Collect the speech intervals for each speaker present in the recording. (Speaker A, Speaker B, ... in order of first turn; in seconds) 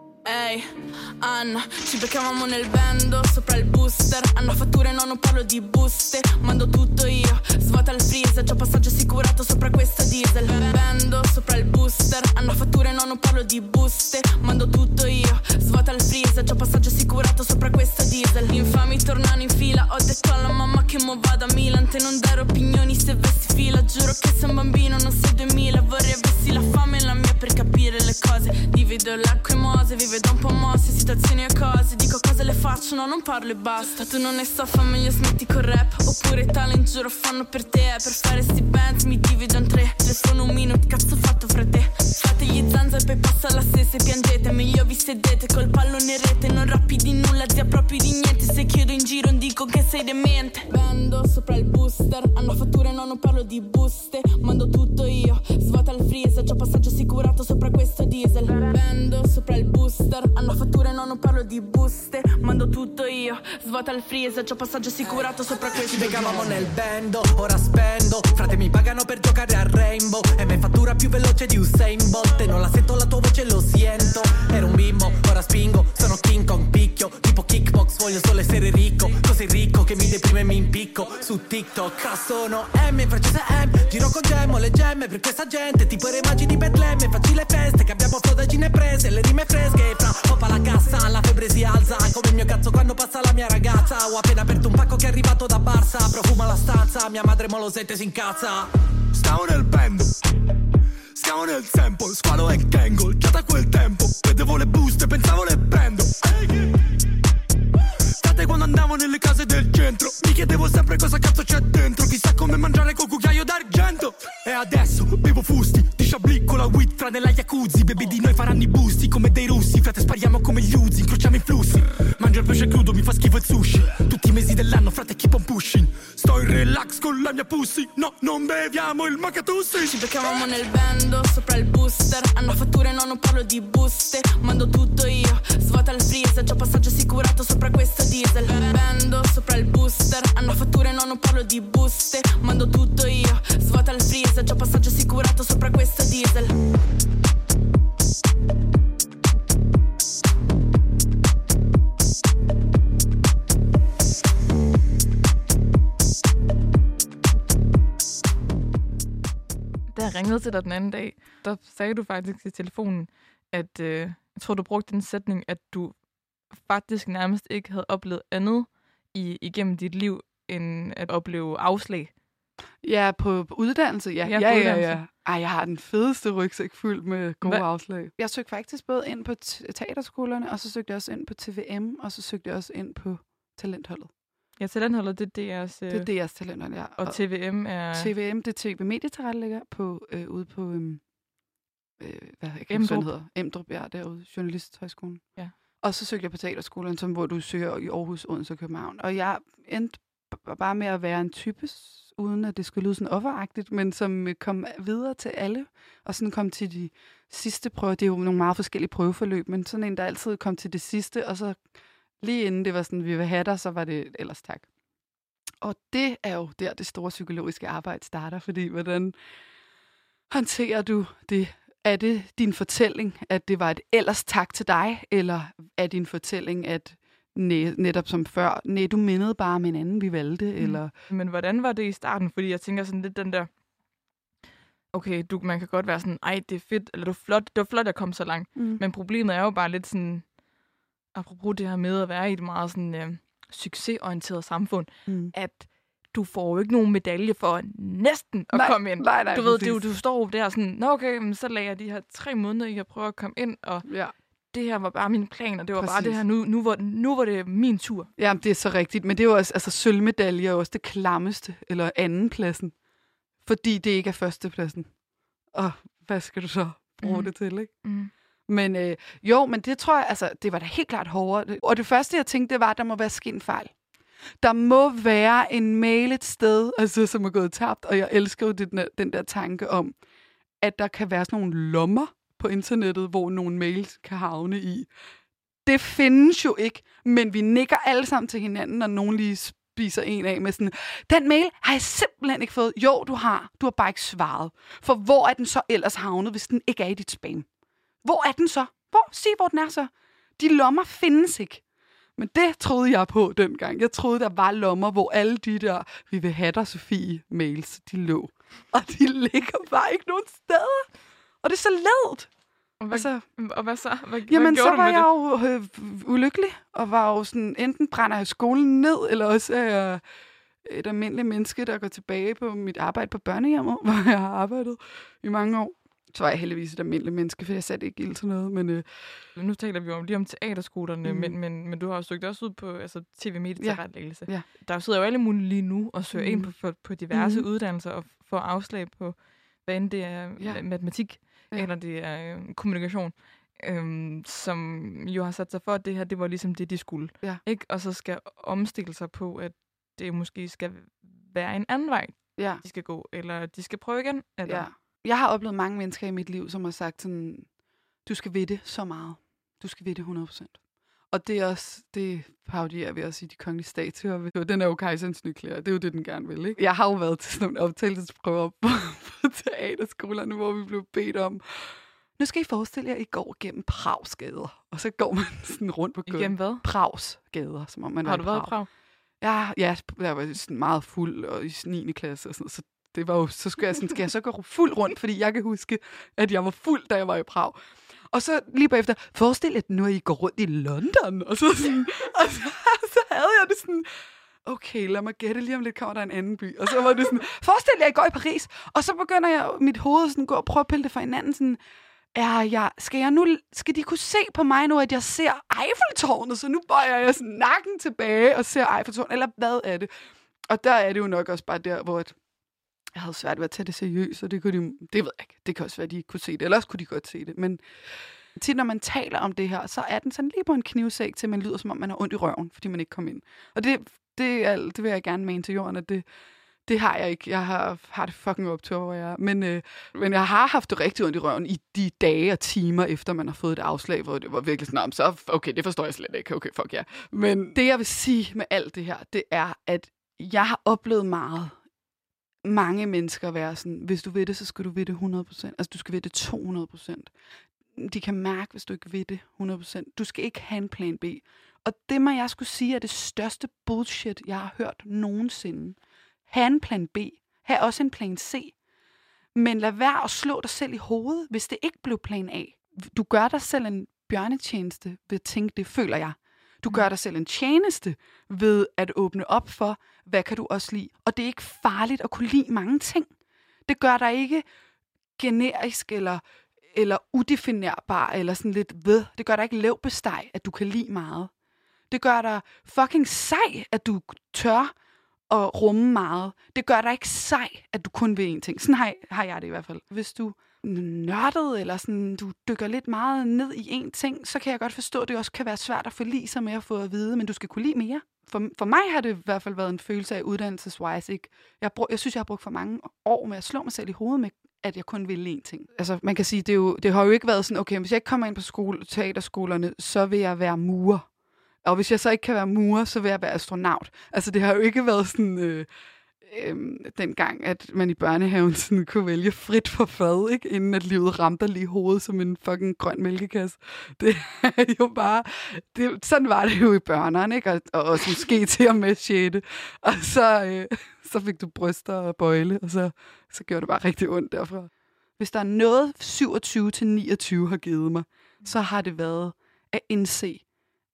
Speaker A: 0.2-66.5, 129.8-146.6
Speaker B: 65.7-98.7
Speaker C: 99.1-100.1, 101.2-106.8, 108.2-130.0
Speaker D: 159.9-166.0, 166.5-172.1, 174.3-175.0, 184.6-186.1, 187.0-188.1, 192.7-193.1, 230.6-233.5, 234.9-240.2, 241.2-253.9, 254.5-258.1, 267.0-268.1, 312.8-315.1, 329.4-354.7, 376.1-376.6, 378.0-378.7
Speaker E: 172.8-184.1, 185.9-191.0, 192.0-195.2, 195.8-211.6, 212.2-214.7, 215.6-219.2, 220.3-230.9, 238.6-238.8, 245.1-245.3, 248.5-249.9, 253.9-254.1, 255.8-256.2, 258.2-262.8, 263.4-264.9, 265.5-267.7, 268.5-273.7, 274.4-280.0, 280.6-284.9, 285.7-297.5, 298.0-301.6, 302.2-310.9, 311.4-312.3, 312.9-313.2, 314.3-320.0, 320.6-328.9, 331.1-331.4, 333.6-334.5, 336.1-336.5, 337.1-337.5, 340.4-340.6, 352.4-352.6, 354.4-357.5, 358.1-360.6, 361.1-378.5, 379.2-387.6, 388.1-393.9, 394.4-401.6, 402.1-409.9, 410.5-412.2, 412.9-417.6, 418.4-426.1, 426.7-441.6, 442.4-447.1, 447.7-458.5, 459.4-473.1, 473.7-474.4, 475.2-481.3, 481.9-484.7, 485.3-511.1, 511.6-515.7, 516.2-540.5